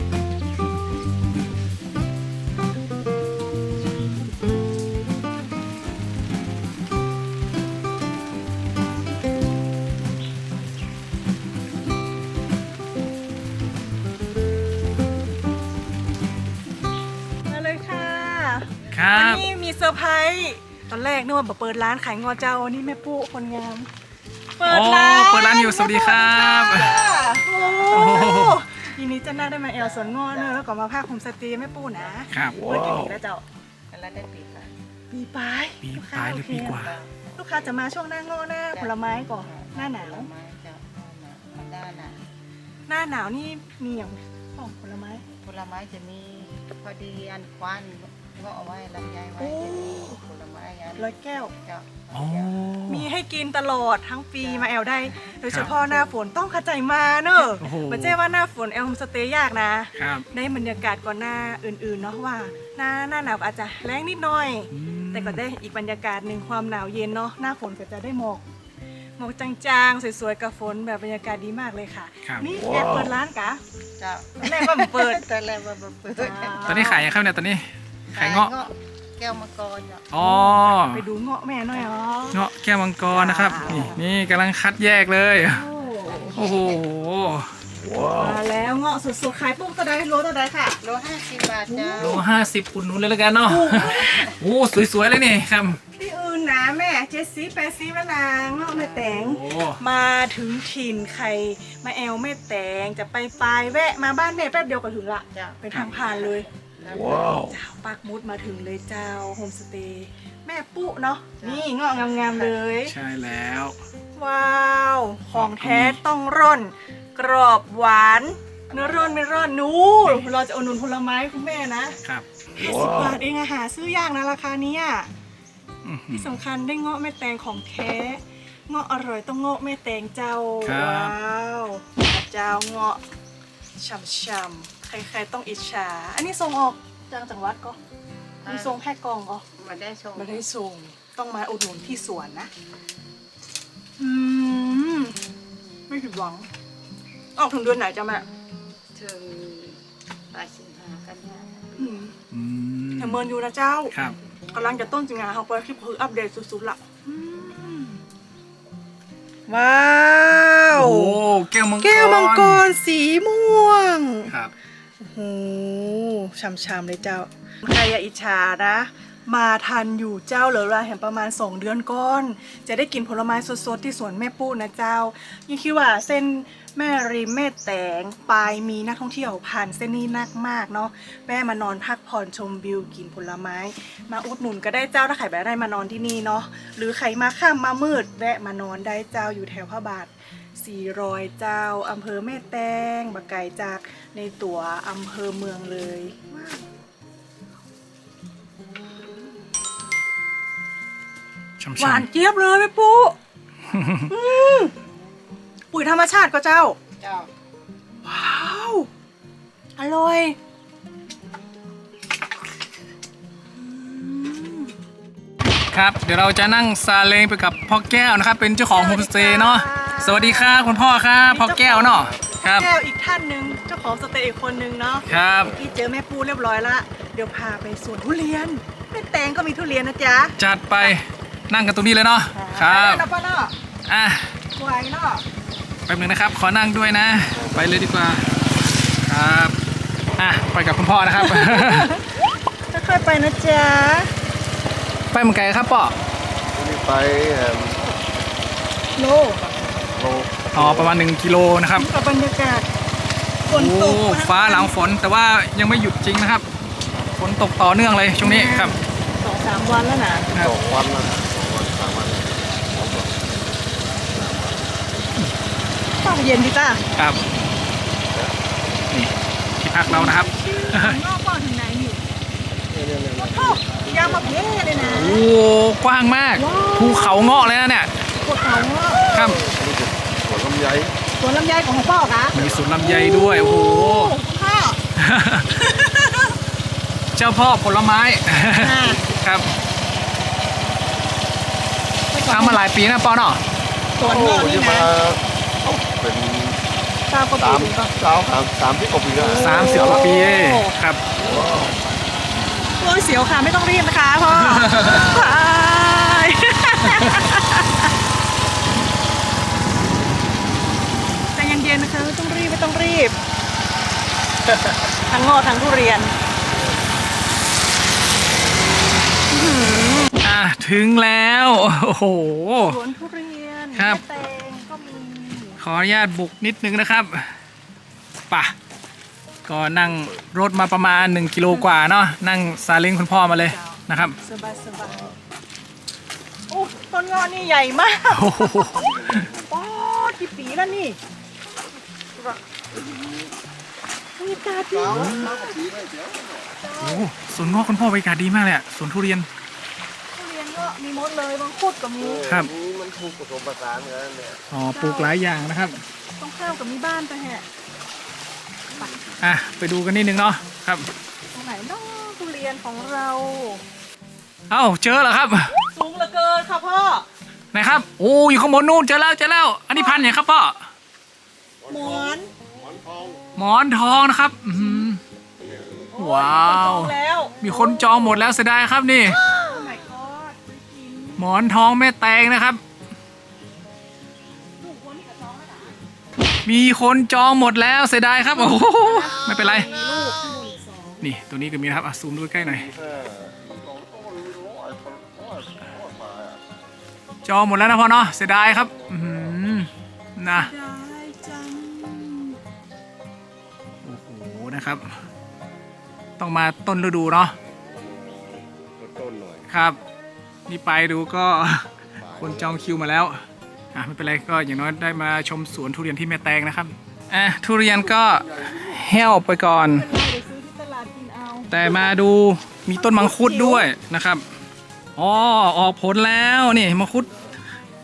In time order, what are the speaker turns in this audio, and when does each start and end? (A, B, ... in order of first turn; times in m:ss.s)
0:17.5-0:23.9 A
0:18.9-0:19.4 B
0:24.6-0:33.4 A
0:24.6-0:27.0 B
0:26.4-0:28.4 C
0:27.9-0:28.6 B
0:29.6-0:30.6 C
0:32.0-0:32.2 C
0:32.3-0:32.6 B
0:33.9-0:34.7 C
0:35.1-0:40.3 A
0:35.8-0:37.0 B
0:36.7-0:37.1 C
0:38.7-0:42.2 C
0:42.9-0:45.2 A
0:45.4-0:52.6 C
0:49.4-0:50.2 A
0:51.0-0:51.5 A
0:52.1-0:53.1 B
0:52.9-1:08.4 A
0:54.4-0:56.2 C
0:57.6-0:58.2 B
1:00.0-1:00.3 B
1:04.7-1:05.4 B
1:09.2-1:13.6 A
1:12.2-1:12.5 B
1:14.0-1:17.0 C
1:14.4-1:15.2 A
1:16.1-1:17.1 A
1:16.6-1:18.6 B
1:18.1-1:20.1 C
1:20.1-1:21.0 B
1:20.2-1:22.4 A
1:22.3-1:25.6 B
1:23.1-1:24.0 A
1:23.7-1:24.0 C
1:25.5-1:26.5 A
1:26.1-1:26.4 C
1:26.3-1:27.5 B
1:28.0-1:30.8 A
1:30.8-1:32.2 C
1:31.7-1:32.2 A
1:32.0-1:35.8 B
1:33.4-1:34.3 A
1:33.8-1:34.3 C
1:35.9-1:46.5 A
1:38.7-1:39.1 C
1:39.1-1:39.8 B
1:45.3-1:47.5 C
1:45.7-1:46.0 B
1:47.4-1:53.0 A
1:51.4-1:52.6 C
1:52.8-1:53.8 B
1:54.2-2:02.0 A
1:55.3-1:56.0 B
2:02.6-2:05.1 A
2:05.8-2:06.3 B
2:06.1-2:13.0 A
2:10.6-2:11.2 B
2:13.8-2:17.8 A
2:18.4-2:18.8 C
2:18.4-2:19.4 A
2:19.6-2:20.4 C
2:20.2-2:22.5 A
2:24.0-2:25.2 A
2:25.9-2:26.5 A
2:27.4-2:28.3 A
2:28.9-2:32.1 C
2:31.8-2:32.1 A
2:32.3-2:33.2 B
2:33.0-2:33.9 A
2:33.9-2:34.2 B
2:34.5-2:38.0 A
2:39.5-2:41.2 A
2:40.8-2:42.6 B
2:41.8-2:44.3 A
2:44.3-2:44.5 B
2:45.0-3:16.7 A
3:21.6-3:22.1 B
3:21.8-3:23.2 A
3:23.7-3:24.1 B
3:24.1-3:24.8 A
3:25.7-3:26.8 A
3:27.0-3:27.3 C
3:28.0-3:28.9 A
3:29.8-3:30.4 A
3:33.5-3:34.7 A
3:35.7-3:42.7 B
3:38.7-3:51.0 A
3:45.0-3:45.6 B
3:50.4-3:53.1 B
3:52.3-3:53.5 A
3:53.9-3:54.4 B
3:54.5-3:55.2 A
3:55.9-3:58.3 B
3:59.0-3:59.6 B
4:00.2-4:01.9 B
4:01.2-4:02.2 A
4:02.7-4:04.1 A
4:05.1-4:06.0 B
4:06.5-4:08.0 D
4:09.0-4:09.5 A
4:09.8-4:10.9 D
4:10.5-4:11.9 B
4:11.8-4:12.7 A
4:13.5-4:14.7 A
4:13.5-4:18.8 B
4:18.2-4:20.3 A
4:20.3-4:23.3 D
4:23.9-4:24.6 D
4:26.0-4:26.9 A
4:27.0-4:27.2 B
4:28.1-4:28.4 D
4:28.9-4:31.0 B
4:29.8-4:32.0 A
4:32.6-4:35.0 D
4:33.2-4:35.2 A
4:34.8-4:37.9 B
4:36.3-4:37.4 A
4:38.2-4:39.4 A
4:39.1-4:39.4 B
4:39.4-4:41.0 D
4:41.2-4:44.8 A
4:42.3-4:44.2 B
4:42.3-4:42.7 D
4:45.0-4:45.9 B
4:45.7-4:46.3 A
4:47.2-4:49.5 B
4:48.5-4:49.0 A
4:52.1-4:52.6 A
4:52.3-4:53.4 B
4:54.0-4:54.9 A
4:54.0-4:56.6 D
4:57.1-4:57.9 A
4:57.4-5:00.1 D
4:59.1-5:00.7 A
4:59.3-5:01.0 B
5:01.4-5:01.6 D
5:02.8-5:07.9 A
5:04.3-5:05.2 B
5:11.3-5:13.2 A
5:15.0-5:16.1 A
5:19.3-5:20.1 A
5:20.2-5:22.8 B
5:22.6-5:25.6 A
5:23.7-5:24.0 B
5:25.6-5:27.3 B
5:29.5-5:34.2 B
5:33.3-5:35.2 A
5:36.5-5:41.0 A
5:38.1-5:39.3 B
5:38.8-5:39.4 D
5:44.2-5:45.6 A
5:44.6-5:46.5 D
5:44.9-5:45.4 B
5:46.6-5:47.4 A
5:46.8-5:49.3 B
5:50.1-5:52.3 A
5:52.0-5:54.4 D
5:52.2-5:52.5 B
5:54.5-5:55.8 B
5:54.7-5:55.2 A
5:56.2-5:57.4 A
5:59.2-6:00.9 B
6:01.3-6:03.6 A
6:04.5-6:05.6 B
6:05.7-6:07.1 A
6:07.5-6:10.7 B
6:09.7-6:10.1 A
6:11.6-6:13.2 D
6:11.7-6:12.3 A
6:13.4-6:15.0 B
6:14.5-6:14.9 A
6:15.4-6:15.9 D
6:16.0-6:18.3 A
6:16.0-6:19.2 B
6:19.0-6:21.3 A
6:21.2-6:22.6 B
6:24.6-6:25.8 A
6:26.4-6:29.7 B
6:28.3-6:31.1 A
6:31.0-6:32.7 B
6:32.5-6:36.4 D
6:37.2-6:40.5 B
6:40.3-6:42.4 A
6:43.8-6:45.0 B
6:46.2-6:47.4 B
6:47.7-6:49.5 D
6:49.5-6:49.8 B
6:50.5-6:53.2 B
6:52.0-6:52.7 D
6:53.7-6:59.9 B
6:58.0-6:58.8 D
6:59.7-7:02.0 A
7:01.5-7:04.2 B
7:02.7-7:03.7 A
7:05.0-7:07.1 B